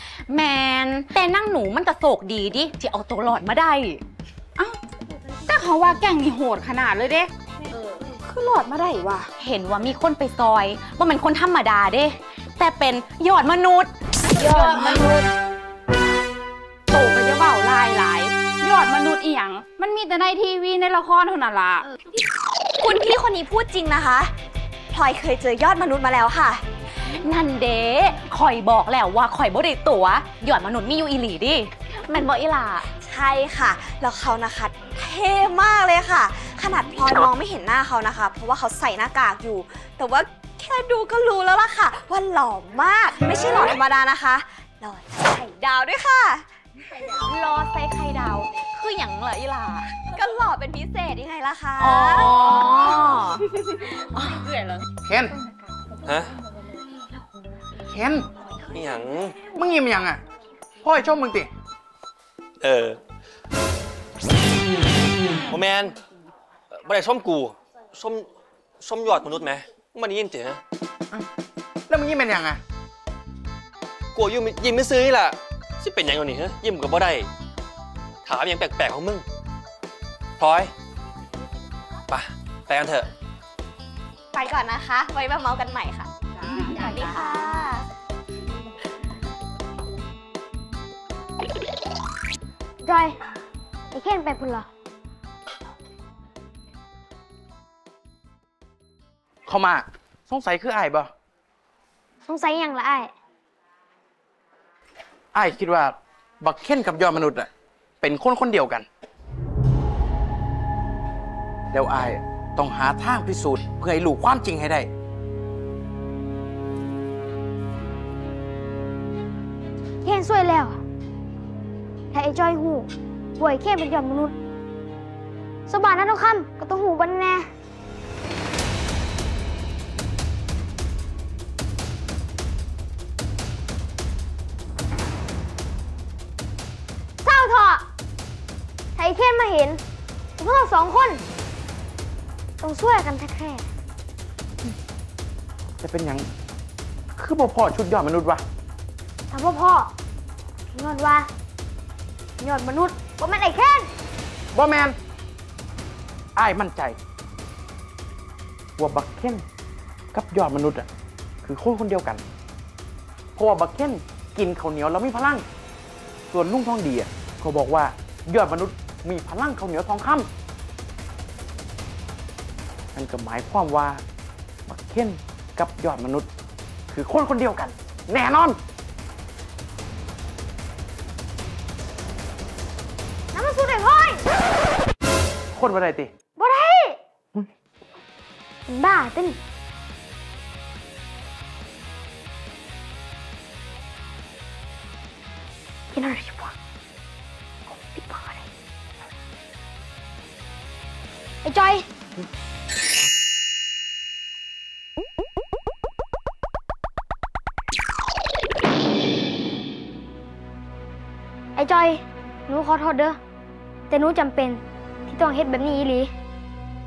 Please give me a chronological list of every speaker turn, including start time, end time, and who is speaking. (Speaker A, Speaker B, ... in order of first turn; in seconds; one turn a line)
Speaker A: 0.3-4.0
Speaker B: 5.4-7.3
Speaker B: 7.9-9.3
Speaker A: 9.4-15.2
Speaker B: 14.3-15.1
Speaker B: 16.9-21.9
Speaker C: 22.8-24.3
Speaker C: 24.9-26.6
Speaker A: 27.0-32.9
Speaker C: 32.9-46.5
Speaker A: 47.1-50.0
Speaker C: 50.0-52.4
Speaker A: 51.8-54.8
Speaker D: 55.0-55.3
Speaker E: 56.0-56.3
Speaker D: 57.9-58.3
Speaker E: 58.7-59.4
Speaker D: 59.4-60.2
Speaker D: 60.8-61.5
Speaker E: 62.6-63.0
Speaker E: 65.5-65.9
Speaker E: 66.7-68.3
Speaker E: 68.8-70.6
Speaker D: 71.9-72.6
Speaker E: 74.1-77.3
Speaker E: 78.2-79.2
Speaker E: 80.4-80.7
Speaker E: 82.1-83.1
Speaker C: 84.3-87.9
Speaker B: 86.4-87.0
Speaker F: 92.8-93.1
Speaker F: 93.9-94.7
Speaker D: 99.5-101.1
Speaker F: 102.2-103.1
Speaker D: 105.3-107.5
Speaker D: 108.0-108.8
Speaker D: 111.7-114.9
Speaker F: 120.0-120.8
Speaker F: 122.1-124.3
Speaker F: 125.7-127.5
Speaker F: 137.2-137.8
Speaker F: 138.9-139.8
Speaker F: 140.4-141.2
Speaker F: 142.6-143.7
Speaker D: 145.8-146.3
Speaker D: 147.2-148.4
Speaker F: 149.3-149.9
Speaker F: 150.7-151.3
Speaker F: 152.4-153.9
Speaker D: 154.5-154.9
Speaker D: 156.3-157.0
Speaker D: 158.8-159.4
Speaker D: 160.1-160.9
Speaker D: 161.4-162.2
Speaker D: 163.3-165.4
Speaker D: 166.3-170.3
Speaker D: 172.9-174.0
Speaker D: 174.7-176.2
Speaker D: 176.9-178.6
Speaker F: 183.3-184.2
Speaker D: 185.5-186.1
Speaker F: 186.4-187.0
Speaker F: 188.7-189.4
Speaker F: 195.9-196.5
Speaker F: 197.7-198.5
Speaker F: 201.4-201.8
Speaker F: 211.6-213.2
Speaker F: 213.9-216.1